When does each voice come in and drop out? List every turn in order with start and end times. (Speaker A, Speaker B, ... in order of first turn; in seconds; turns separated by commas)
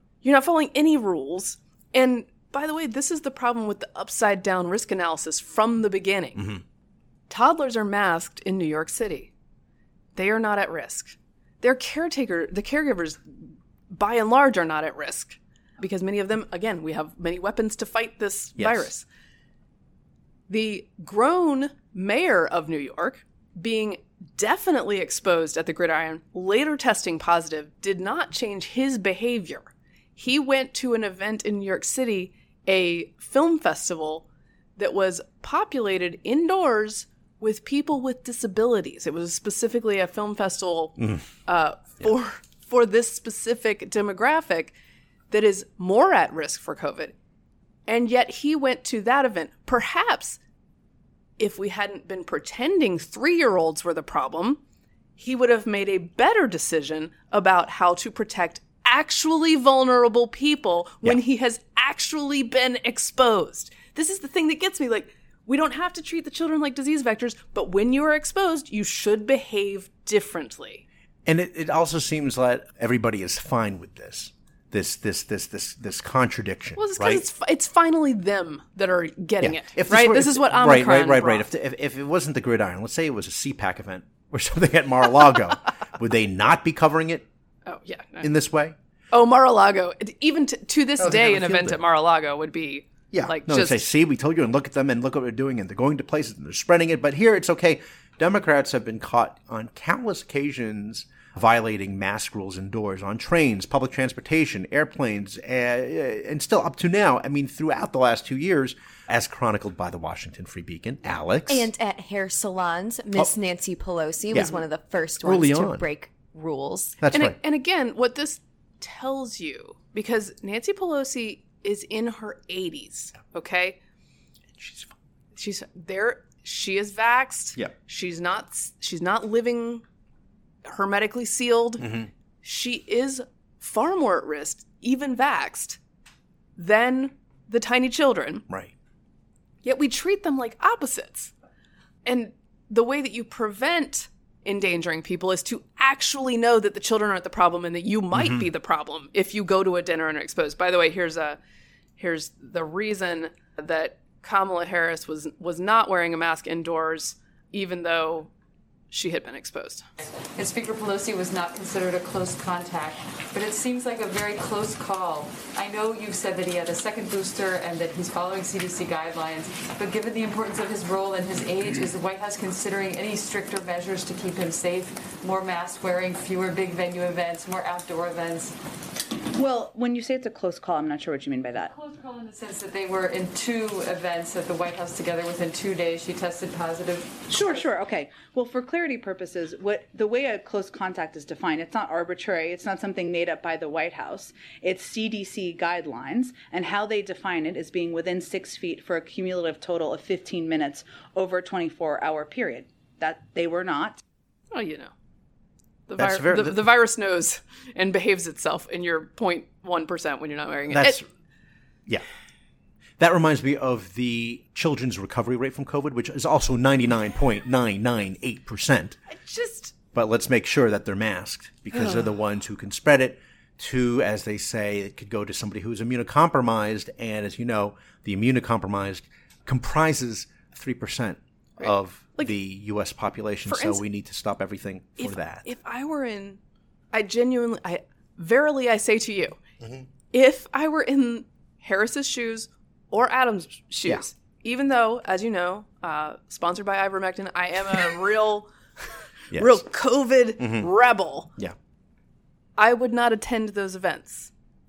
Speaker A: 0.2-6.5, Speaker B: 6.4-6.6, Speaker A: 7.3-9.3, Speaker A: 10.2-19.1, Speaker B: 18.6-18.9, Speaker A: 20.5-34.2, Speaker A: 34.8-44.8, Speaker B: 41.0-41.2, Speaker A: 45.3-47.1, Speaker A: 47.9-50.4, Speaker A: 51.4-54.6, Speaker A: 55.2-70.8, Speaker B: 71.3-77.2, Speaker A: 76.8-81.5, Speaker B: 79.4-87.3, Speaker A: 87.7-88.3, Speaker B: 88.2-88.8, Speaker A: 89.1-93.9, Speaker B: 91.0-91.8, Speaker B: 93.1-111.7, Speaker C: 111.5-117.0, Speaker B: 115.2-115.8, Speaker B: 117.0-117.4, Speaker A: 117.1-123.8, Speaker B: 124.6-125.0, Speaker A: 125.3-129.8, Speaker A: 130.7-135.8, Speaker B: 131.8-132.1, Speaker A: 136.6-138.4, Speaker B: 138.5-138.7, Speaker A: 139.6-141.3, Speaker A: 142.1-151.4, Speaker B: 148.1-148.4, Speaker A: 152.0-158.3, Speaker A: 158.9-159.9, Speaker D: 160.3-178.5, Speaker E: 179.3-181.7, Speaker D: 181.7-187.7, Speaker E: 187.3-204.0, Speaker A: 204.5-204.9, Speaker A: 205.9-211.0, Speaker B: 206.0-206.6, Speaker B: 210.7-211.1, Speaker B: 213.0-219.0, Speaker A: 219.1-219.7, Speaker B: 219.9-235.5, Speaker A: 231.6-232.3, Speaker A: 233.5-233.8, Speaker A: 235.0-236.4, Speaker A: 236.9-239.4, Speaker A: 240.1-251.3, Speaker B: 249.3-249.6, Speaker B: 250.4-250.7, Speaker A: 252.6-254.3